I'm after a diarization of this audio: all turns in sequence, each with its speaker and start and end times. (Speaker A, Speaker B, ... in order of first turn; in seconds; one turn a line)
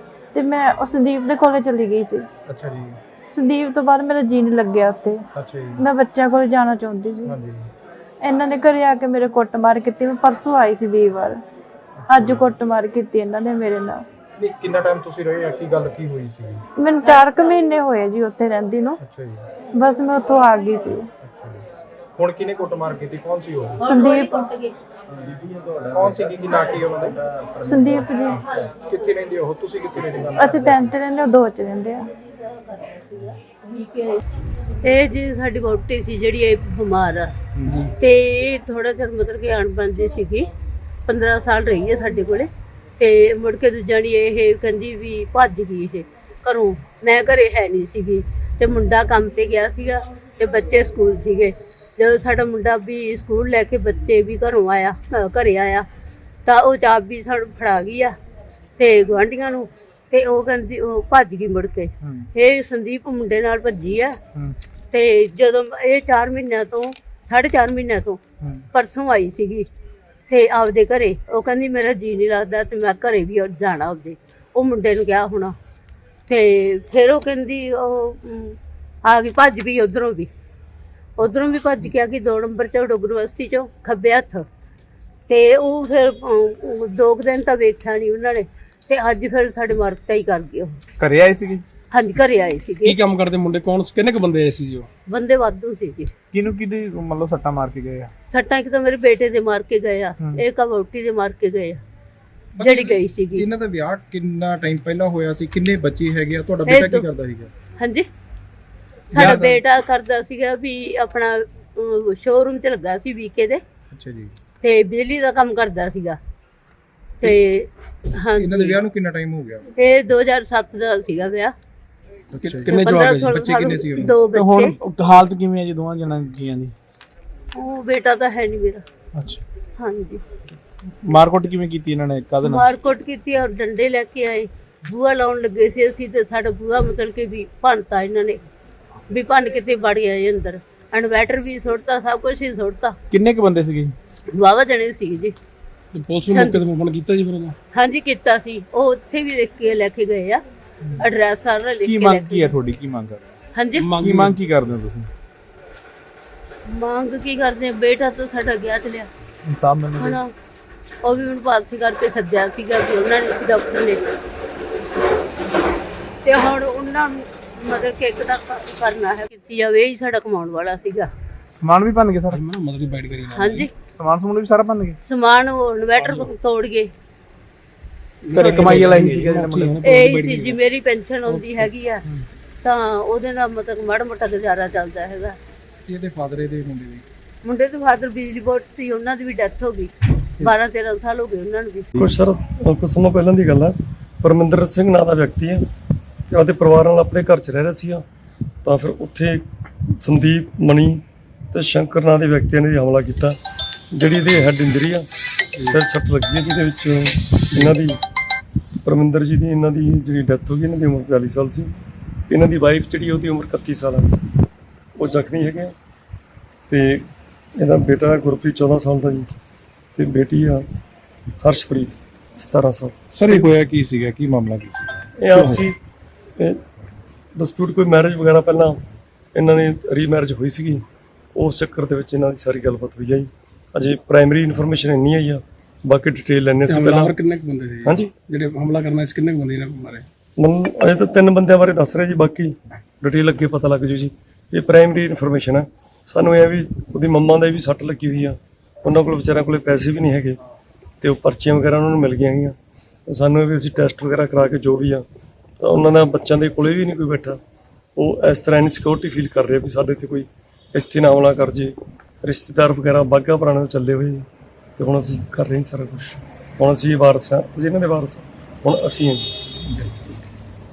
Speaker A: 0.3-2.3
Speaker B: 2.5-3.0
Speaker A: 3.3-5.2
Speaker B: 5.3-5.8
Speaker A: 5.8-7.3
Speaker B: 7.3-7.7
Speaker A: 8.2-11.4
Speaker B: 12.0-12.5
Speaker A: 12.1-14.0
Speaker B: 14.4-16.6
Speaker A: 16.8-19.0
Speaker B: 19.0-19.5
Speaker A: 19.8-21.1
Speaker B: 21.2-21.6
Speaker B: 22.2-23.9
Speaker A: 23.8-24.4
Speaker C: 23.9-24.7
Speaker B: 25.9-27.2
Speaker A: 27.6-28.4
Speaker B: 28.6-30.8
Speaker A: 30.4-32.1
Speaker C: 32.9-34.2
Speaker C: 34.8-37.3
Speaker B: 37.6-37.8
Speaker C: 38.0-40.5
Speaker C: 41.1-55.9
Speaker C: 56.5-58.2
Speaker C: 58.8-64.2
Speaker C: 64.9-68.2
Speaker C: 68.7-69.7
Speaker C: 70.3-75.5
Speaker C: 76.3-80.3
Speaker C: 81.2-84.5
Speaker C: 85.3-90.8
Speaker D: 91.0-91.6
Speaker C: 91.9-93.0
Speaker E: 92.8-94.9
Speaker C: 95.1-96.1
Speaker D: 96.3-98.1
Speaker C: 98.3-101.8
Speaker B: 102.6-107.5
Speaker C: 102.6-103.5
Speaker C: 106.7-107.0
Speaker C: 107.8-108.1
Speaker B: 109.1-109.6
Speaker C: 109.1-113.6
Speaker B: 113.9-114.3
Speaker C: 114.6-116.2
Speaker C: 117.2-117.7
Speaker C: 118.2-118.8
Speaker B: 118.3-119.7
Speaker C: 119.8-121.5
Speaker B: 122.3-124.2
Speaker E: 122.4-123.4
Speaker C: 122.7-124.8
Speaker D: 124.3-126.7
Speaker C: 127.6-128.8
Speaker B: 129.1-129.4
Speaker C: 129.8-130.2
Speaker D: 131.0-132.6
Speaker C: 132.4-138.4
Speaker C: 139.1-143.0
Speaker D: 143.1-143.9
Speaker C: 144.3-145.3
Speaker E: 145.9-147.6
Speaker C: 146.3-146.6
Speaker C: 147.7-150.4
Speaker C: 151.0-152.6
Speaker D: 151.8-153.3
Speaker C: 153.6-153.9
Speaker E: 153.8-154.4
Speaker D: 154.0-155.1
Speaker C: 156.7-159.1
Speaker D: 159.5-160.2
Speaker C: 160.0-160.3
Speaker C: 161.0-164.0
Speaker C: 166.2-171.1
Speaker D: 171.5-172.4
Speaker E: 172.3-173.7
Speaker C: 173.3-173.7
Speaker D: 173.9-175.0
Speaker C: 175.1-176.9
Speaker E: 176.0-176.3
Speaker E: 178.2-180.6
Speaker D: 178.3-179.8
Speaker C: 179.8-182.0
Speaker C: 182.6-185.4
Speaker B: 185.9-187.0
Speaker C: 187.4-191.9
Speaker F: 191.9-195.7
Speaker F: 196.3-198.0
Speaker F: 198.6-199.4
Speaker F: 200.0-203.4
Speaker F: 203.9-205.1
Speaker F: 205.6-208.0
Speaker F: 208.8-211.7
Speaker F: 212.3-214.1
Speaker F: 215.0-215.7
Speaker F: 216.7-217.1
Speaker F: 217.6-219.3
Speaker F: 220.0-220.6
Speaker F: 221.4-222.9
Speaker B: 223.1-225.7
Speaker F: 225.2-225.8
Speaker F: 227.4-228.8
Speaker F: 229.3-230.8
Speaker F: 231.4-237.2
Speaker E: 236.7-240.1
Speaker F: 237.8-238.1
Speaker F: 240.4-250.4
Speaker F: 251.0-252.6
Speaker F: 253.1-255.0
Speaker F: 255.6-257.4
Speaker F: 258.0-264.2
Speaker F: 264.8-269.4
Speaker E: 269.8-270.2